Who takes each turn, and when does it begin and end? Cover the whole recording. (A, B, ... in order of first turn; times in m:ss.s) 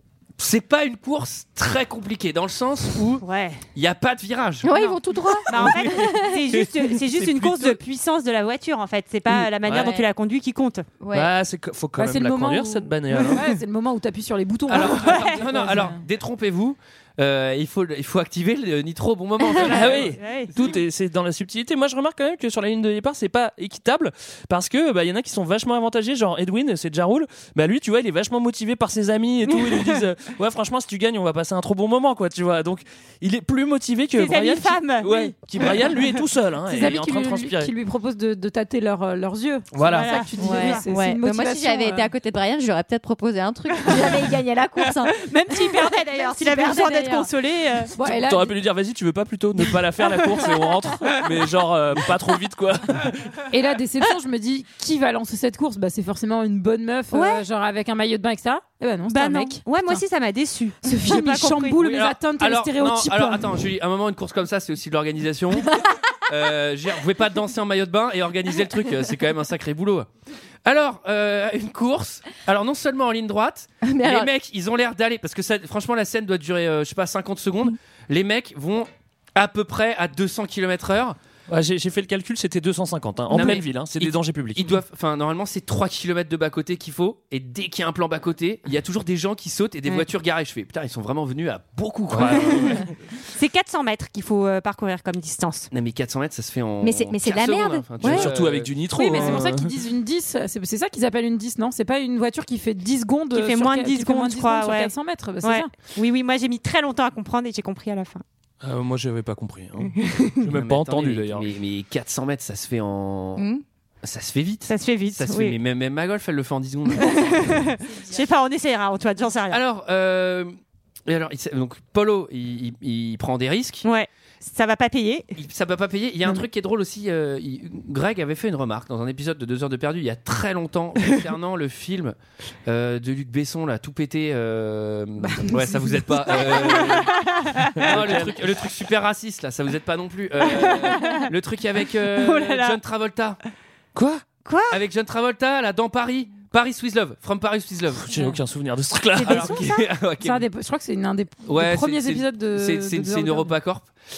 0:00.4-0:03.2 A
0:03.2-0:03.6 B
0:03.8-0:04.7 A
0:04.6-0:06.4 C
0:05.5-0:10.9 B
0:05.5-0:07.8 A
0:09.6-0:09.9 D
0:09.7-0:10.1 C
0:11.0-0:11.3 C
0:11.1-0:13.4 D
0:12.0-0:16.0 E
0:14.7-0:20.2 A
0:14.8-0:15.4 B
0:19.7-0:37.7 D
0:19.9-0:20.5 B
0:34.1-0:35.3 B
0:36.6-0:42.1 E
0:39.7-0:40.1 D
0:39.8-0:40.9 B
0:40.4-0:47.3 C
0:45.3-0:48.0 B
0:48.0-0:48.6 E
0:48.1-0:53.4 D
0:53.5-1:00.0 E
0:57.1-0:57.4 B
0:59.1-1:01.9 B
1:00.8-1:03.5 E
1:01.8-1:05.8 A
1:06.3-1:10.1 A
1:10.6-1:21.2 A
1:13.8-1:14.3 C
1:21.5-1:24.7 D
1:23.3-1:32.8 A
1:32.1-1:32.8 D
1:33.3-1:35.7 B
1:35.7-1:39.4 A
1:36.8-1:38.3 C
1:38.0-1:39.7 D
1:38.9-1:45.7 E
1:43.3-1:48.2 B
1:48.6-1:51.5 D
1:50.5-1:53.4 A
1:53.4-1:53.6 C
1:54.0-1:57.7 A
1:54.7-1:55.6 B
1:57.0-1:59.6 B
1:59.5-2:00.5 A
2:01.1-2:03.9 A
2:03.8-2:05.3 B
2:05.4-2:23.4 A
2:16.5-2:17.7 B
2:17.8-2:18.4 D
2:20.4-2:21.2 B
2:22.1-2:22.8 B
2:24.0-2:24.2 D
2:24.5-2:24.8 B
2:24.7-2:28.2 A
2:28.1-2:29.6 D
2:29.2-2:29.8 B
2:29.2-2:30.5 A
2:30.2-2:33.5 E
2:31.5-2:33.9 A